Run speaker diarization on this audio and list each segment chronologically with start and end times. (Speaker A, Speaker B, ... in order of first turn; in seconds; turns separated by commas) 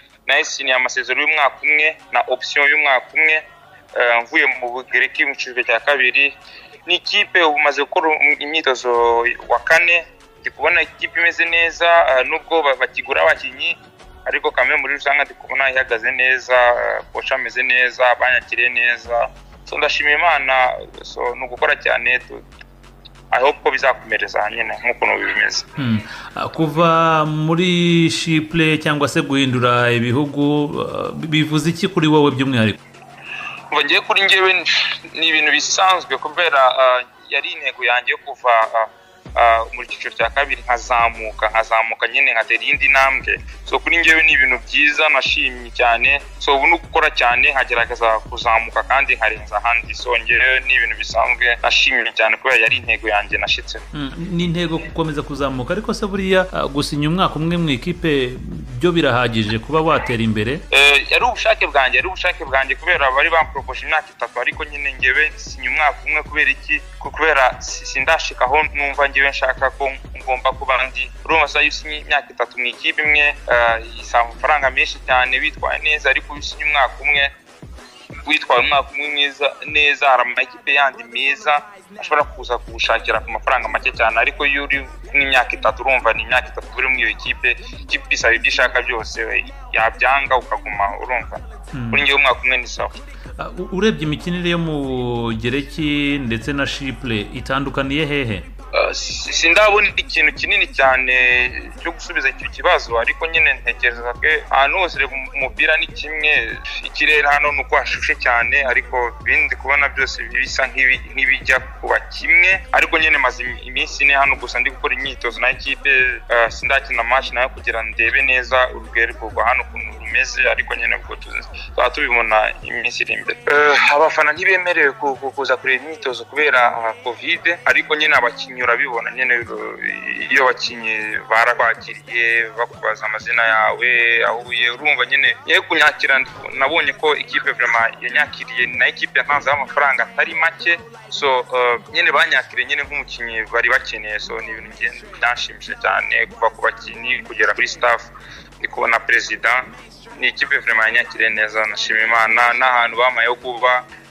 Speaker A: 0.3-3.4, Speaker A: 4.0-6.3, Speaker A: 6.9-22.4, Speaker A: 23.3-25.7, Speaker B: 25.8-32.8, Speaker A: 33.7-53.8, Speaker B: 53.9-60.6, Speaker A: 60.7-77.3, Speaker A: 78.2-92.9, Speaker B: 91.7-92.0, Speaker B: 93.4-98.5, Speaker A: 98.7-153.8